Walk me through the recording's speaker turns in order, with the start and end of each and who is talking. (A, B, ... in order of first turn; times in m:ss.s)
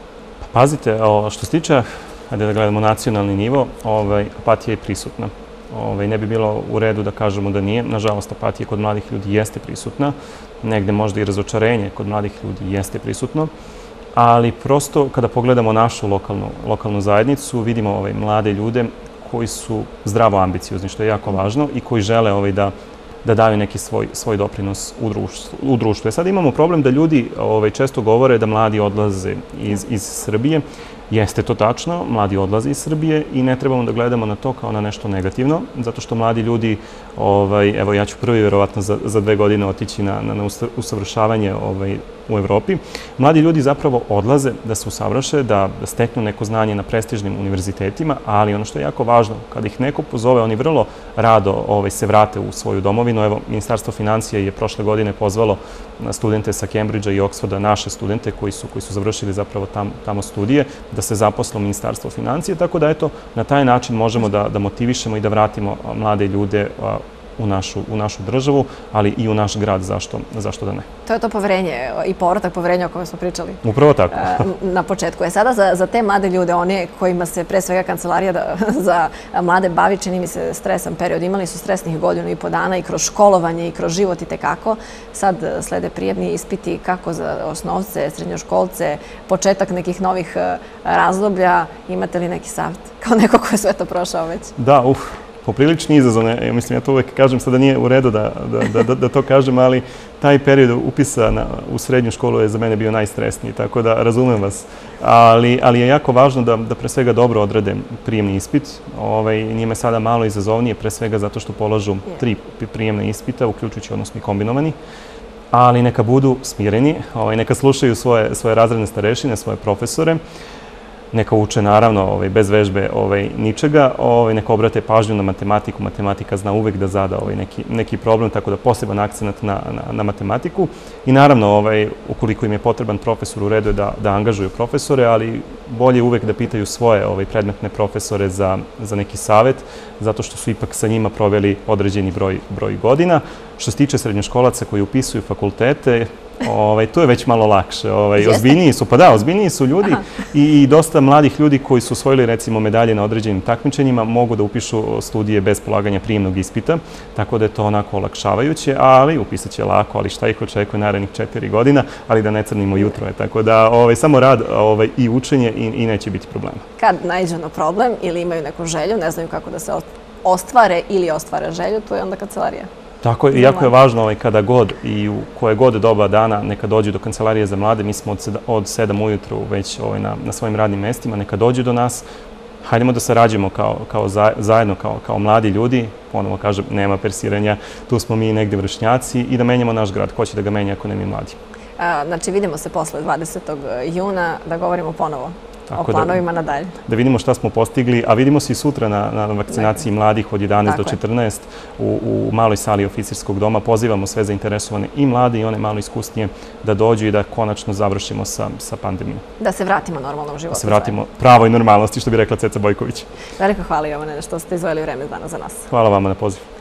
0:00.5-0:13.5 A
0:14.2-0:22.7 A
0:23.2-1:10.9 A
1:11.1-1:34.5 B
1:13.6-1:14.5 A
1:34.6-1:54.8 A
1:55.5-2:00.2 A
2:01.1-2:46.6 A
2:46.8-2:52.7 B
2:53.0-3:02.0 A
2:53.3-2:53.7 B
3:02.6-3:11.4 A
3:11.8-3:16.7 B
3:15.7-3:16.2 A
3:16.9-3:29.2 A
3:20.7-3:21.0 B
3:29.4-3:31.0 B
3:30.5-3:33.1 A
3:33.4-3:35.7 B
3:35.7-3:36.4 A